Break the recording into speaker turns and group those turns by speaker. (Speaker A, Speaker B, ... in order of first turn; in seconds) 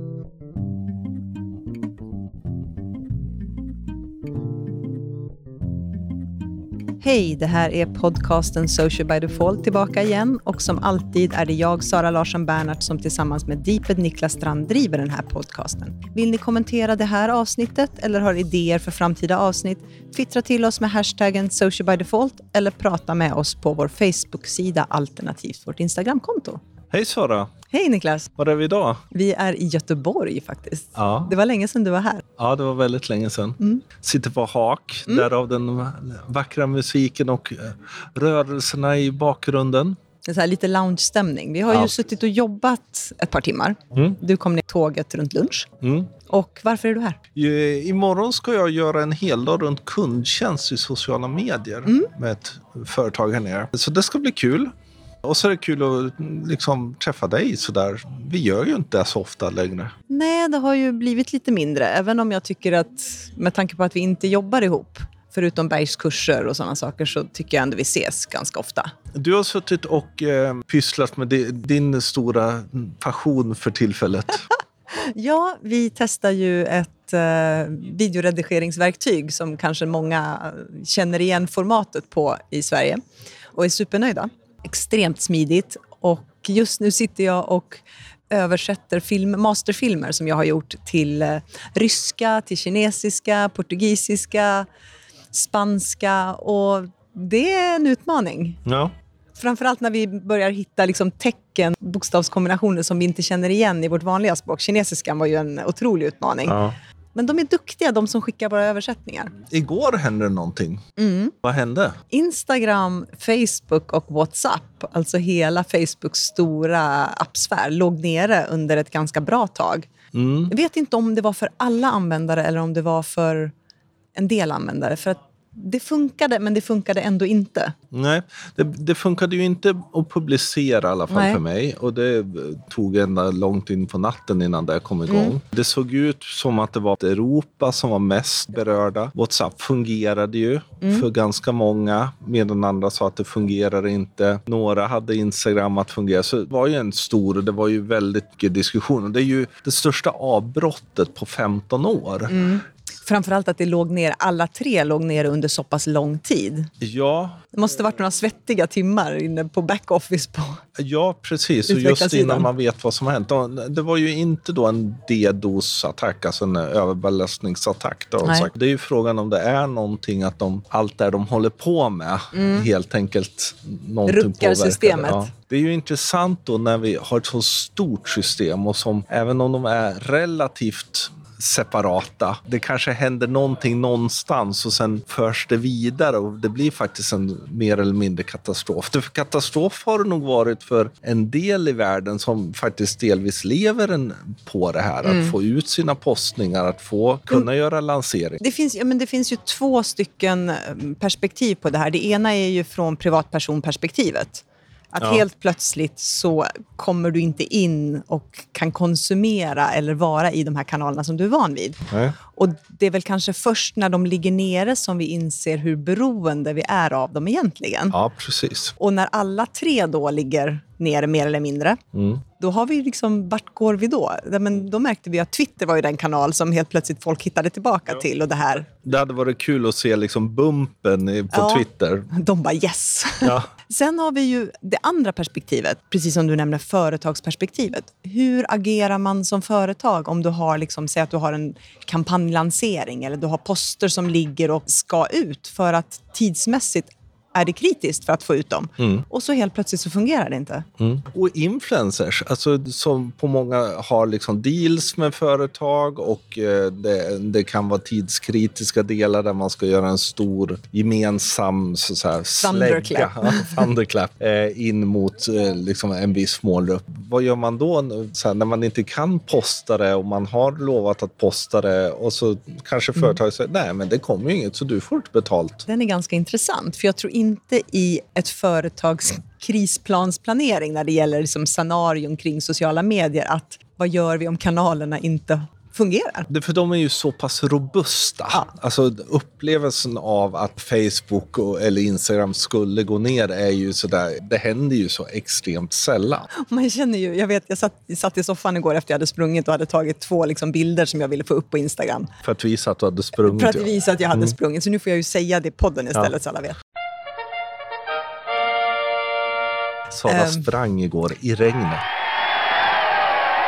Speaker A: 7.0-26.6, 27.7-28.3, 29.1-32.2, 40.2-45.7, 46.3-47.2, 60.1-68.9, 74.9-83.0, 83.5-94.7, 95.3-98.6, 99.4-106.6, 107.2-109.3, 111.0-111.3, 112.1-119.9, 120.5-123.5, 124.2-127.7, 131.1-131.4, 152.3-156.7, 157.5-160.6, 161.7-162.5, 168.2-168.5, 172.3-172.7, 174.1-175.3, 195.1-195.3, 198.4-218.0, 218.8-221.8, 222.4-228.8, 231.3-250.7, 262.4-263.7, 275.7-286.3, 296.3-302.1, 303.2-306.6, 310.1-310.5
Speaker B: 26.9-27.5, 28.4-29.0, 31.0-31.4, 32.4-40.0, 45.8-46.1, 47.4-54.7, 55.2-59.9, 69.1-74.5, 98.7-98.9, 106.5-106.8, 109.5-110.8, 111.4-112.0, 120.1-120.5, 127.9-152.4, 156.8-157.4, 160.8-198.4, 211.9-212.2, 217.9-218.7, 221.9-222.2, 228.8-232.1, 233.2-233.5, 248.8-249.0, 250.8-275.7, 286.3-296.3, 302.2-304.3, 309.9-311.9